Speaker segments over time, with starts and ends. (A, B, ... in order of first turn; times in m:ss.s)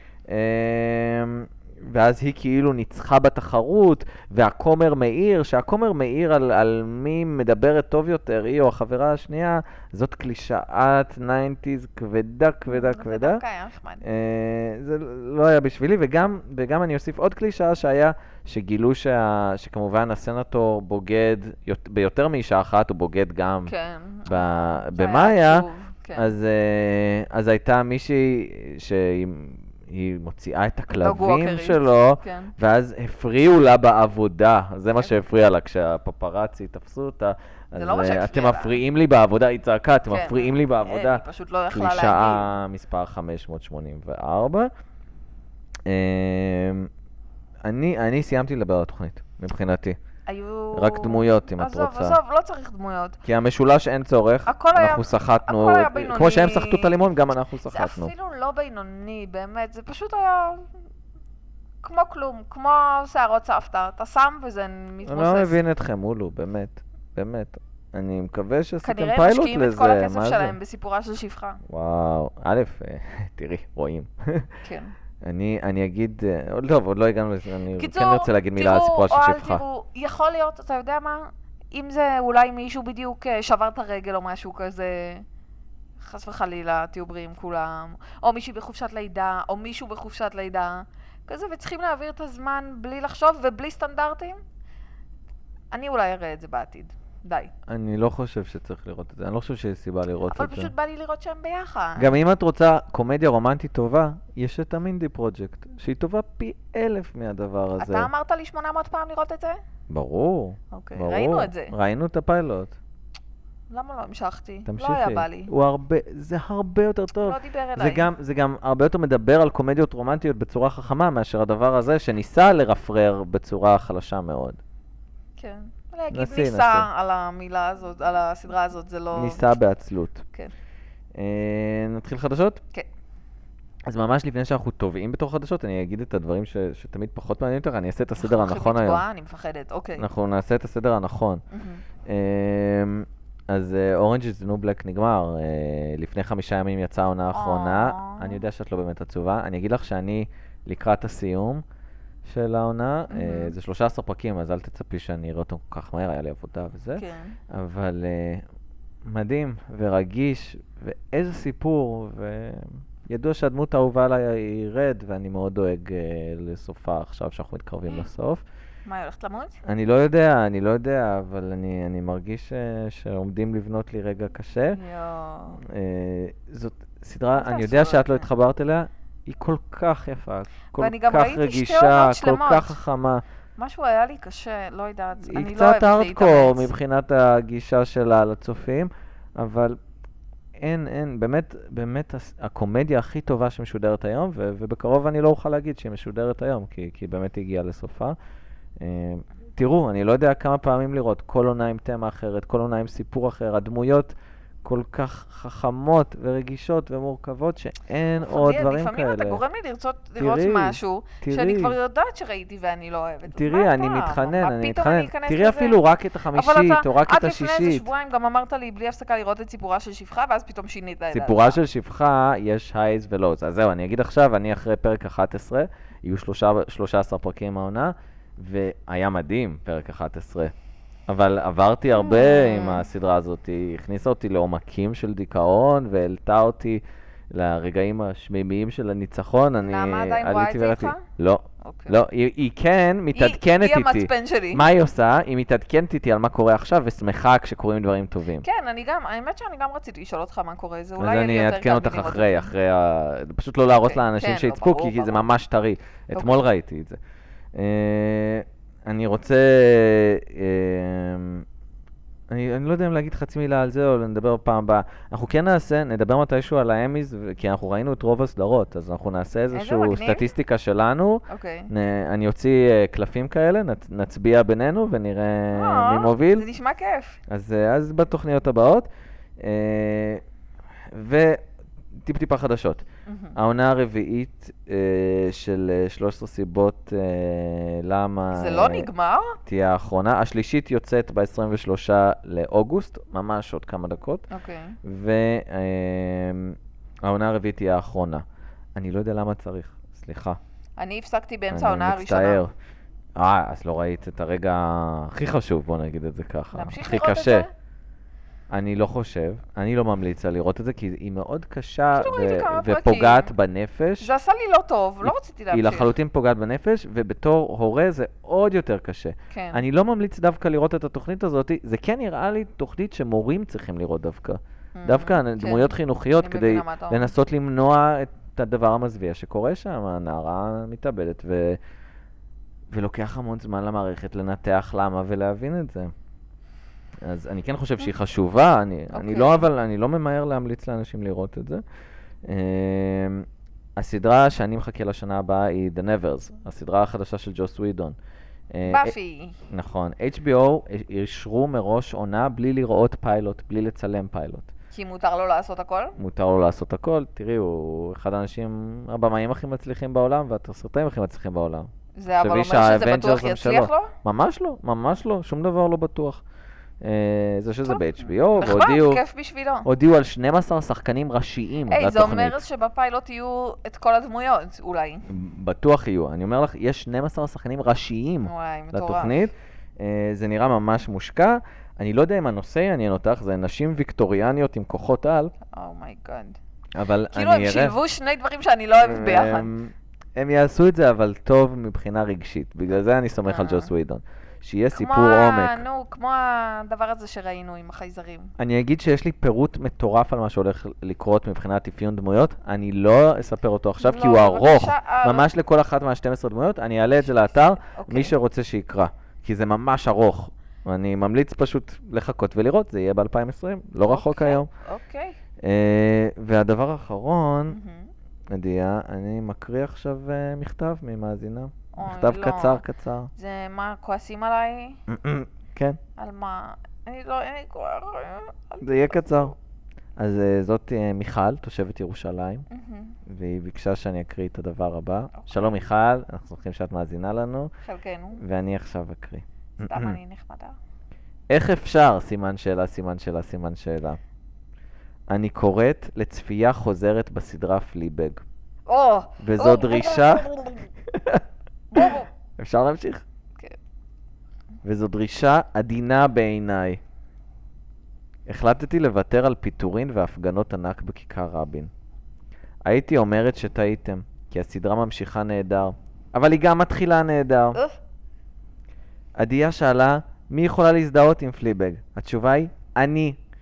0:00.3-0:13.4 A
0:12.7-0:14.0 B
0:14.0-0:23.7 A
0:23.7-0:26.3 B
0:24.3-0:44.7 A
0:31.0-0:32.5 B
0:37.8-0:38.8 B
0:40.1-0:42.5 B
0:45.9-0:46.9 A
0:47.6-0:50.0 A
0:50.3-0:53.2 B
0:50.7-0:52.2 A
0:53.2-0:58.1 A
0:54.5-0:57.0 B
0:57.7-1:00.7 B
1:01.8-1:05.6 B
1:05.0-1:10.6 A
1:08.8-1:11.6 B
1:11.7-1:14.5 A
1:14.6-1:14.9 B
1:15.2-1:19.6 A
1:17.8-1:25.2 B
1:26.0-1:34.4 B
1:35.7-1:37.5 B
1:37.7-1:40.7 A
1:40.3-1:42.1 B
1:42.0-1:48.1 A
1:47.8-1:49.6 B
1:49.9-1:52.8 A
1:50.7-1:51.7 B
1:53.7-1:55.5 B
1:54.7-2:04.6 A
1:57.2-1:58.1 B
2:05.4-2:09.4 B
2:06.1-2:06.9 A
2:09.1-2:10.2 A
2:11.2-2:12.6 A
2:13.9-2:19.0 A
2:18.2-2:20.1 B
2:20.0-2:21.4 A
2:21.5-2:21.8 B
2:22.0-2:31.6 A
2:27.3-2:28.4 B
2:32.2-2:38.4 A
2:33.1-2:33.5 B
2:37.0-2:37.4 B
2:39.0-2:48.4 A
2:48.9-2:49.6 B
2:49.6-2:54.8 A
2:54.7-2:55.6 B
2:55.6-3:03.2 A
2:57.3-2:58.3 B
3:00.7-3:02.8 B
3:03.6-3:06.7 B
3:05.2-3:09.8 A
3:10.6-3:18.2 A
3:18.8-3:29.4 A
3:28.2-3:35.8 B
3:30.2-3:31.8 A
3:33.3-3:37.9 A
3:36.3-3:41.6 B
3:41.1-3:50.5 A
3:51.1-4:08.4 A
3:52.0-3:52.8 B
3:59.6-4:01.0 B
4:01.6-4:02.0 B
4:03.1-4:04.6 B
4:08.4-4:12.5 B
4:11.0-4:17.0 A
4:13.7-4:15.2 B
4:16.2-4:16.4 B
4:17.5-4:21.5 A
4:22.3-4:36.5 A
4:29.5-4:30.2 B
4:31.3-4:31.7 B
4:35.5-4:37.2 B
4:37.3-4:38.9 A
4:39.4-4:40.2 A
4:40.9-4:41.4 A
4:42.0-4:42.8 A
4:43.1-4:43.4 B
4:43.4-4:48.9 A
4:48.3-4:49.4 B
4:49.4-4:54.3 A
4:54.3-4:54.8 B
4:54.8-4:58.2 A
4:58.8-5:00.4 A
5:00.8-5:02.4 B
5:01.5-5:02.5 A
5:03.2-5:07.5 A
5:06.5-5:07.5 B
5:08.5-5:14.1 A
5:12.0-5:13.3 B
5:14.0-5:15.9 B
5:15.0-5:31.6 A
5:19.3-5:19.6 B
5:24.8-5:27.1 B
5:32.7-5:35.9 A
5:37.0-5:41.6 A
5:38.9-5:39.4 B
5:42.2-5:43.3 A
5:43.8-5:48.0 A
5:48.5-5:48.9 A
5:48.7-5:49.4 B
5:49.5-5:54.5 A
5:54.7-5:56.0 B
5:56.0-6:06.2 A
6:02.0-6:03.9 B
6:06.8-6:09.0 A
6:07.7-6:09.7 B
6:09.6-6:12.4 A
6:11.7-6:15.1 B
6:15.1-6:25.3 A
6:18.2-6:19.2 B
6:25.5-6:26.4 B
6:26.8-6:27.8 A
6:27.1-6:29.5 B
6:28.8-6:35.6 A
6:33.3-6:33.7 B
6:34.7-6:38.3 B
6:38.4-6:54.5 A
6:43.8-6:45.3 B
6:47.6-6:48.1 B
6:53.8-6:55.2 B
6:55.4-6:57.6 A
6:57.5-6:57.9 B
6:58.3-7:03.1 A
7:01.8-7:02.6 B
7:03.2-7:04.8 B
7:04.9-7:05.8 A
7:06.0-7:09.4 B
7:08.6-7:09.3 A
7:10.0-7:12.4 A
7:12.5-7:13.0 B
7:13.1-7:17.5 A
7:15.1-7:15.5 B
7:17.6-7:18.2 B
7:18.2-7:20.0 A
7:19.6-7:20.6 B
7:21.3-7:24.0 A
7:25.1-7:28.2 A
7:28.7-7:30.7 B
7:29.2-7:30.3 A
7:30.9-7:31.2 A
7:31.7-7:32.1 B
7:31.8-7:33.0 A
7:34.6-7:36.8 A
7:38.3-7:41.7 A
7:42.6-7:47.6 A
7:49.2-7:53.2 A